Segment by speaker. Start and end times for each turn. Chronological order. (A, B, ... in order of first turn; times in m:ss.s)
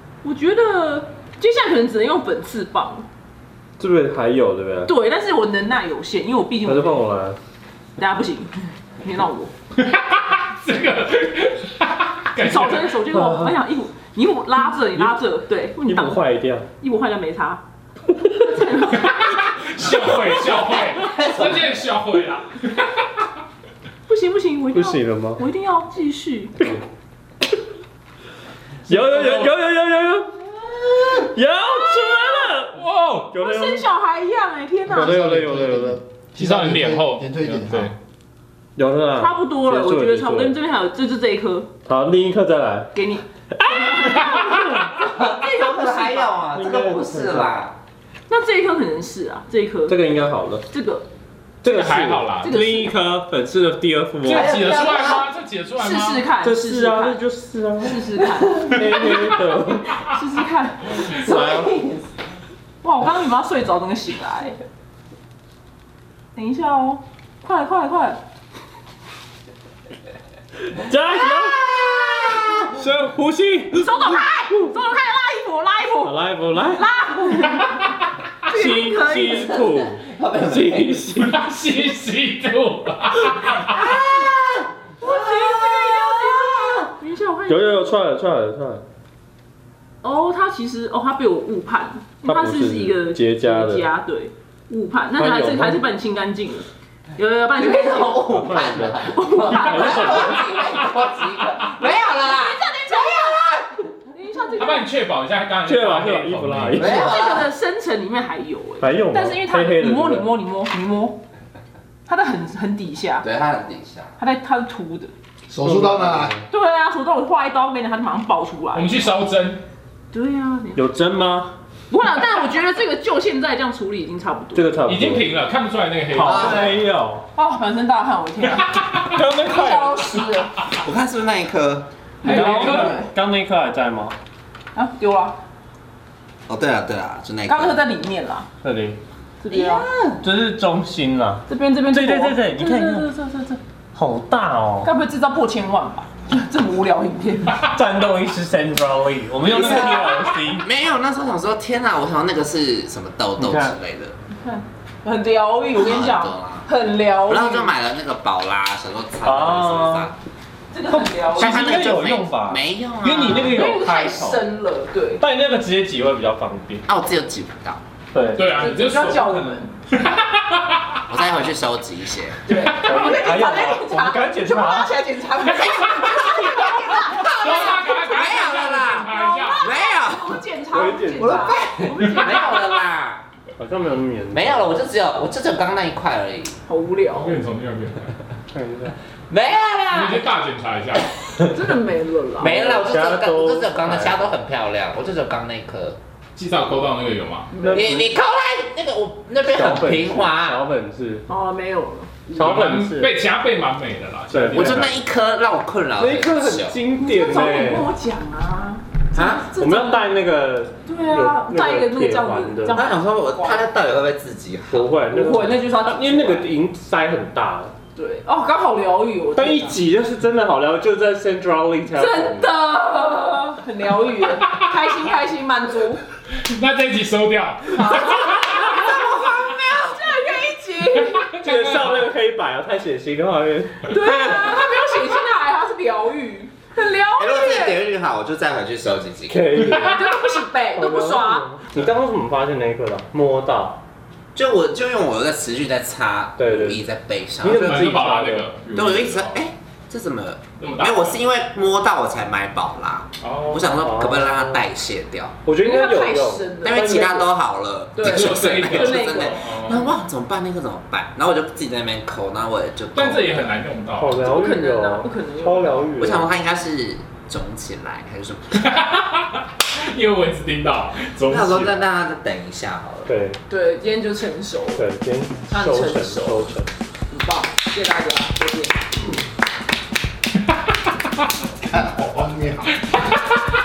0:00.2-0:03.0 A
0:03.8-0:04.9 B
0:04.8-0:07.1 A
0:06.6-0:07.4 B
0:08.0-0:09.5 A
0:09.7-0:13.0 C
0:12.4-0:16.2 A
0:13.1-0:13.6 B
0:14.8-0:15.1 B
0:15.8-0:16.7 B
0:16.8-0:17.6 A
0:18.3-0:19.2 A
0:18.9-0:22.9 C
0:24.1-0:26.5 A
0:24.7-0:25.4 B
0:28.9-0:30.3 B
0:29.2-0:29.4 C
0:31.2-0:32.6 A
0:31.2-0:33.9 B
0:32.7-0:33.3 C
0:33.3-0:35.3 A
0:34.9-0:36.0 B
0:35.3-0:35.6 D
0:36.3-0:38.0 C
0:36.4-0:37.3 D
0:38.8-0:40.6 B
0:39.2-0:41.7 A
0:41.8-0:42.9 B
0:42.9-0:46.4 A
0:43.5-0:44.7 B
0:44.2-0:44.8 C
0:45.0-0:47.8 E
0:46.5-0:47.5 B
0:48.3-0:50.0 A
0:49.9-0:50.6 B
0:50.7-0:51.1 A
0:51.6-0:54.6 B
0:51.6-0:52.5 C
0:52.4-0:52.9 A
0:54.2-0:56.2 C
0:54.2-0:55.3 E
0:55.8-0:57.2 A
0:56.4-1:00.0 B
0:57.8-0:59.2 A
1:00.1-1:01.7 A
1:01.0-1:01.8 B
1:01.2-1:02.0 E
1:02.8-1:04.6 A
1:06.3-1:08.2 A
1:10.8-1:11.7 B
1:11.1-1:12.7 E
1:12.7-1:14.7 B
1:13.7-1:17.7 A
1:16.0-1:16.8 B
1:18.5-1:19.6 A
1:18.5-1:21.4 B
1:19.3-1:21.0 E
1:21.2-1:23.9 C
1:23.6-1:26.9 E
1:25.0-1:27.9 A
1:27.5-1:28.8 B
1:30.0-1:38.4 A
1:32.2-1:33.8 B
1:35.2-1:35.8 B
1:37.6-1:43.9 E
1:38.3-1:40.4 B
1:39.0-1:40.6 A
1:41.8-1:43.4 A
1:44.1-1:44.9 A
1:44.6-1:46.9 C
1:45.6-1:47.2 B
1:46.8-1:47.5 E
1:46.8-1:51.2 A
1:48.8-1:50.3 B
1:52.0-1:53.3 A
1:53.2-1:54.1 E
1:54.2-1:55.1 A
1:55.6-1:56.4 B
1:55.6-1:56.2 D
1:56.5-1:59.1 A
1:58.7-1:59.6 C
2:00.1-2:00.8 A
2:00.7-2:01.5 B
2:01.9-2:04.7 A
2:04.5-2:05.3 B
2:04.8-2:06.8 C
2:06.1-2:07.2 B
2:06.2-2:06.8 E
2:07.3-2:10.5 A
2:08.5-2:09.2 C
2:09.0-2:10.2 B
2:10.8-2:11.9 E
2:12.2-2:13.1 A
2:12.2-2:13.0 C
2:12.2-2:14.2 B
2:14.7-2:15.4 A
2:16.5-2:17.8 E
2:17.5-2:18.5 A
2:18.6-2:19.0 B
2:19.4-2:19.9 A
2:19.5-2:20.2 E
2:20.2-2:23.1 B
2:21.5-2:23.6 A
2:23.9-2:24.9 B
2:24.8-2:27.7 A
2:27.6-2:30.6 B
2:29.4-2:34.1 E
2:29.5-2:30.1 A
2:33.4-2:33.8 B
2:34.4-2:37.7 A
2:35.7-2:36.6 E
2:37.3-2:40.2 E
2:39.2-2:40.1 B
2:40.7-2:42.1 A
2:40.9-2:44.4 B
2:41.4-2:43.7 E
2:43.5-2:45.2 A
2:45.2-2:46.8 B
2:46.9-2:47.8 E
2:48.1-2:48.5 B
2:48.3-2:50.9 C
2:48.5-2:49.7 A
2:51.1-2:52.7 E
2:52.4-3:02.8 A
2:52.8-2:55.0 B
2:55.4-3:00.4 E
2:57.1-2:59.7 C
3:00.7-3:01.5 B
3:01.2-3:03.2 E
3:02.0-3:02.6 C
3:03.6-3:04.8 B
3:04.3-3:06.6 E
3:06.6-3:07.4 A
3:07.1-3:08.1 C
3:08.5-3:08.9 B
3:09.3-3:10.3 E
3:09.9-3:11.1 C
3:11.4-3:12.5 A
3:12.4-3:14.3 B
3:12.4-3:16.0 E
3:16.4-3:17.5 C
3:17.5-3:17.9 A
3:17.5-3:18.1 B
3:17.7-3:20.6 E
3:19.4-3:21.2 B
3:21.3-3:22.3 A
3:22.3-3:23.1 B
3:22.4-3:25.0 C
3:24.3-3:24.9 B
3:24.5-3:26.8 E
3:26.0-3:27.9 B
3:27.0-3:30.2 A
3:29.1-3:29.5 E
3:29.6-3:32.8 B
3:30.8-3:33.7 A
3:32.7-3:34.9 E
3:34.7-3:37.7 B
3:35.1-3:36.5 A
3:37.9-3:39.8 A
3:39.3-3:42.5 B
3:41.9-3:46.0 A
3:46.4-3:48.6 C
3:47.7-3:51.3 A
3:48.6-3:49.4 E
3:51.1-3:52.1 C
3:51.4-3:54.4 B
3:53.8-3:57.9 A
3:57.2-3:59.4 E
3:59.3-4:00.0 B
3:59.7-4:01.6 A
4:00.7-4:03.8 B
4:04.3-4:07.9 E
4:06.4-4:06.8 B
4:07.4-4:08.5 B
4:07.4-4:09.4 C
4:08.7-4:15.3 E
4:10.6-4:11.2 C
4:13.2-4:13.7 C
4:13.6-4:14.6 B
4:15.4-4:17.3 B
4:15.6-4:17.2 A
4:16.6-4:23.5 E
4:17.9-4:19.4 A
4:18.0-4:19.9 C
4:22.9-4:24.2 C
4:23.9-4:26.3 B
4:24.2-4:25.9 A
4:26.0-4:28.7 E
4:28.6-4:31.8 C
4:31.3-4:33.1 E
4:33.0-4:33.4 B
4:33.5-4:34.9 A
4:34.8-4:36.7 B
4:35.5-4:36.6 A
4:37.1-4:38.9 A
4:42.2-4:42.6 D
4:42.8-4:43.4 C